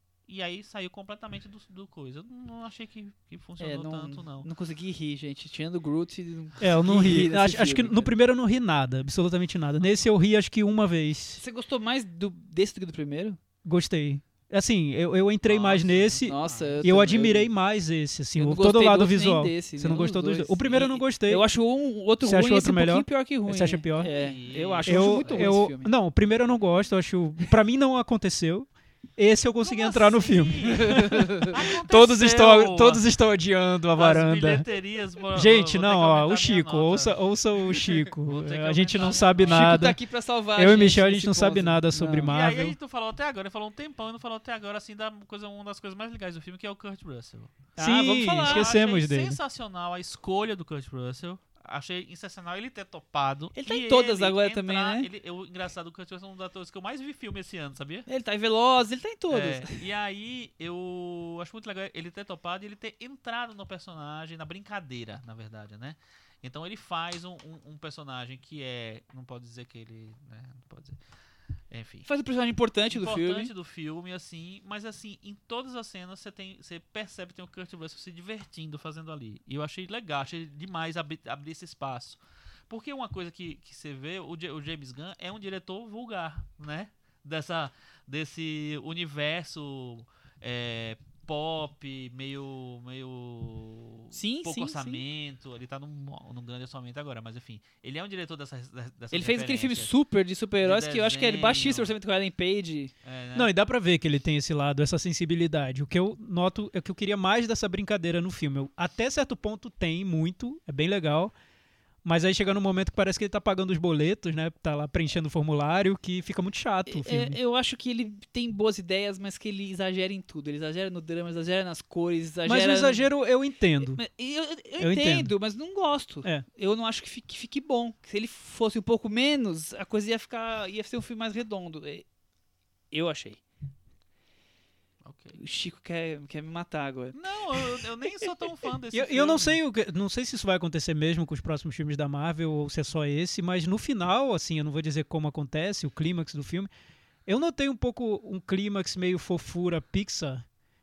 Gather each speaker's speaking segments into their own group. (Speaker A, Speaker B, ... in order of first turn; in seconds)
Speaker A: 0.3-4.5, 15.4-17.0, 24.1-25.6, 29.6-33.0, 34.0-37.1, 38.3-39.9, 42.2-47.5, 48.4-58.1, 59.3-71.0, 71.7-72.1, 72.9-99.9, 100.6-101.9, 103.0-103.5, 135.0-135.4, 137.1-139.6
Speaker B: 3.6-8.1, 11.4-13.4, 16.2-17.5, 18.4-25.9, 30.6-31.5, 39.4-42.3, 47.8-48.7, 53.5-55.1, 58.1-59.8, 72.0-73.5, 94.1-95.0, 99.1-102.9, 116.9-123.0, 123.8-132.0, 132.9-133.4, 135.3-137.8
Speaker C: 6.6-11.4, 13.6-21.4, 22.2-24.1, 24.8-34.6, 35.3-40.0, 40.5-42.8, 47.8-49.4, 103.3-111.3, 112.0-117.4, 122.5-124.0, 124.8-125.3, 138.9-146.7, 147.2-150.4